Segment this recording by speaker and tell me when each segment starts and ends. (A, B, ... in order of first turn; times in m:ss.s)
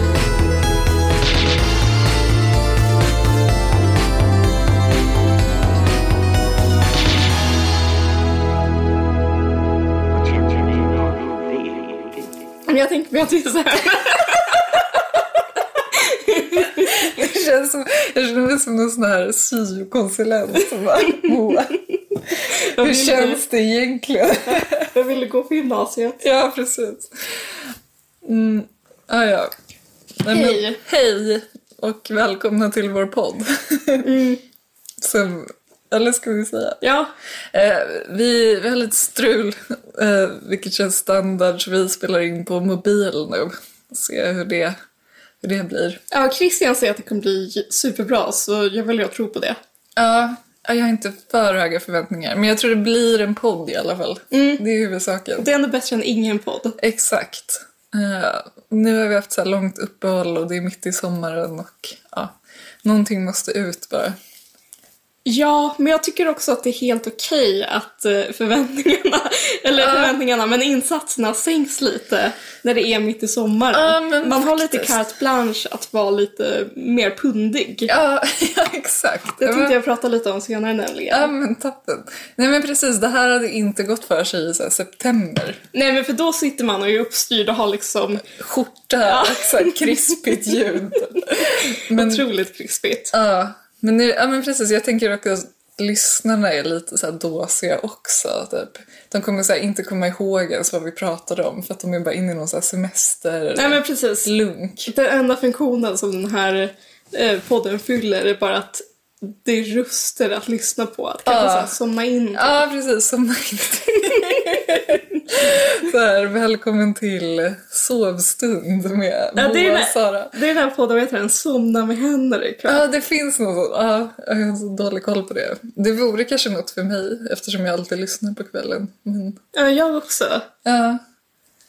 0:10.1-0:12.3 A
0:12.7-0:14.9 B
0:15.9-0:17.2 B
0:16.8-0:24.9 C
0:22.5-0:23.4 B
0:24.9-0:26.2 B
0:26.2-0:27.1 C
0:28.2-0:29.5 C
0:30.2-0:34.0 C
0:30.3-0:30.8 B
0:34.0-0:34.4 B
0:35.0-0:36.8 C
0:36.8-0:37.1 B
0:37.5-0:44.8 C
0:45.4-0:46.0 C
0:46.1-0:49.6 B
0:50.0-0:55.5 C
0:54.3-0:54.6 B
0:55.4-0:56.8 B
0:56.8-1:04.2 C
1:05.2-1:17.9 B
1:09.8-1:10.1 C
1:13.7-1:15.0 C
1:17.9-1:19.7 C
1:19.4-1:21.3 B
1:21.1-1:25.6 C
1:25.7-1:28.2 B
1:28.2-1:32.2 C
1:29.0-1:30.6 B
1:31.4-1:33.1 B
1:33.1-1:44.9 C
1:43.5-1:44.3 B
1:44.8-1:52.6 B
1:51.2-1:51.7 C
1:52.3-2:00.4 C
1:54.1-1:54.6 B
1:59.4-2:02.8 B
2:02.7-2:09.4 C
2:09.5-2:10.5 B
2:10.6-2:11.0 C